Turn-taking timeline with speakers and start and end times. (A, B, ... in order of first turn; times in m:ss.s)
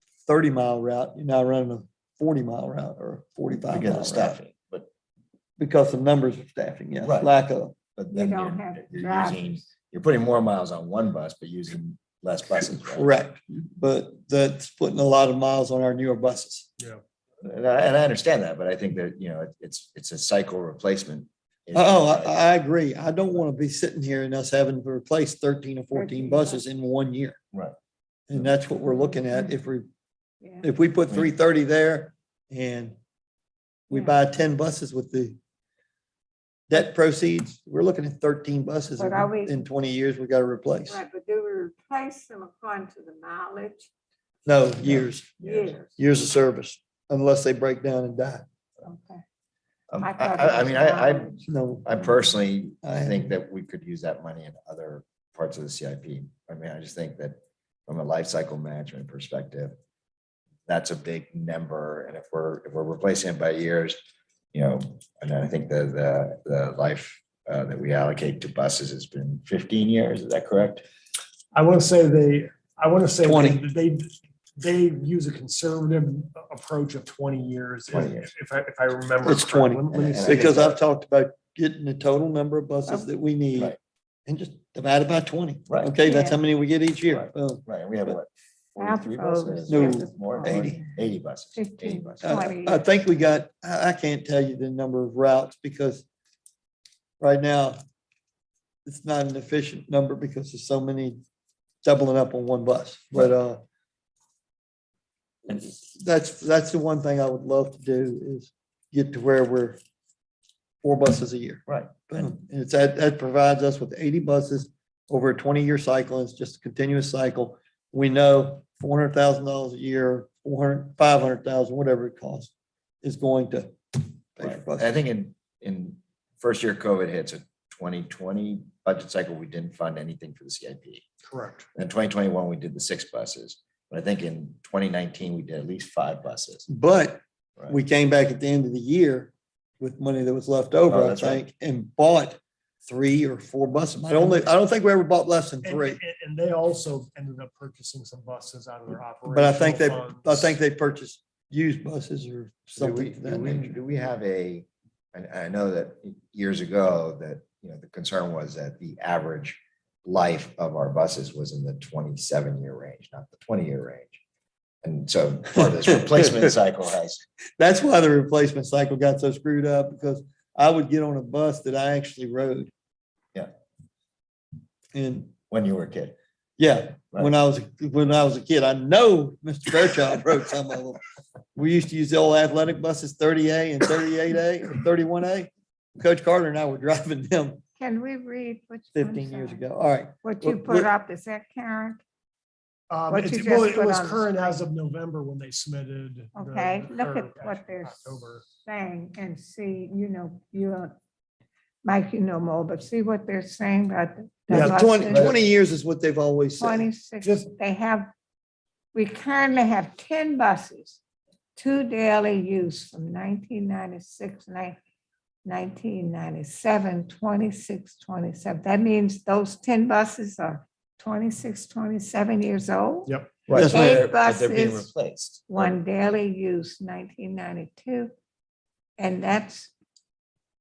0:00.3-0:04.4 A
0:03.7-0:04.9 B
0:05.6-0:07.8 A
0:07.0-0:07.3 B
0:08.0-0:13.1 B
0:08.1-0:09.6 C
0:12.8-0:16.7 A
0:17.4-0:22.4 B
0:21.7-0:27.4 A
0:25.9-0:26.6 C
0:28.3-0:29.9 A
0:28.9-0:29.5 C
0:30.6-0:33.0 A
0:33.9-0:35.4 A
0:33.9-0:34.2 C
0:36.7-0:41.0 A
0:39.0-0:39.6 C
0:40.9-0:43.9 C
0:44.5-0:45.3 A
0:44.8-0:45.8 B
0:45.4-0:45.9 C
0:46.0-0:48.4 A
0:48.8-0:49.2 C
0:49.9-0:59.8 B
0:50.0-0:51.4 C
0:51.4-0:51.9 A
0:52.8-0:53.3 A
1:00.7-1:04.0 B
1:04.5-1:10.8 B
1:11.5-1:20.6 D
1:13.2-1:13.6 A
1:17.9-1:18.3 B
1:19.2-1:28.2 A
1:19.9-1:20.8 B
1:25.7-1:25.9 B
1:26.0-1:26.4 C
1:27.1-1:32.6 B
1:28.8-1:31.0 C
1:29.7-1:30.8 A
1:31.5-1:32.9 C
1:32.2-1:36.0 A
1:37.2-1:37.8 A
1:38.8-1:41.2 A
1:41.8-1:43.6 A
1:45.5-1:49.8 A
1:50.8-2:02.5 A
2:03.0-2:04.9 A
2:04.4-2:11.0 B
2:11.3-2:11.7 D
2:11.8-2:16.7 B
2:16.7-2:26.0 A
2:20.9-2:21.4 B
2:25.6-2:30.6 D
2:29.3-2:33.8 A
2:32.7-2:44.2 B
2:44.8-2:47.2 B
2:47.6-2:52.7 A
2:54.9-2:55.3 A
2:55.5-2:56.2 B
2:56.6-3:01.0 A
3:01.6-3:07.6 A
3:07.8-3:09.7 C
3:09.0-3:10.9 A
3:10.2-3:12.0 C
3:12.9-3:18.5 D
3:13.1-3:14.6 C
3:16.4-3:20.9 C
3:21.8-3:25.3 C
3:24.5-3:26.9 A
3:25.1-3:25.4 B
3:26.6-3:28.1 C
3:27.2-3:27.5 D
3:28.9-3:31.0 C
3:31.6-3:34.8 C
3:35.4-3:44.9 C
3:43.5-3:45.8 B
3:43.5-3:44.0 A
3:45.5-3:48.1 C
3:49.0-3:49.7 C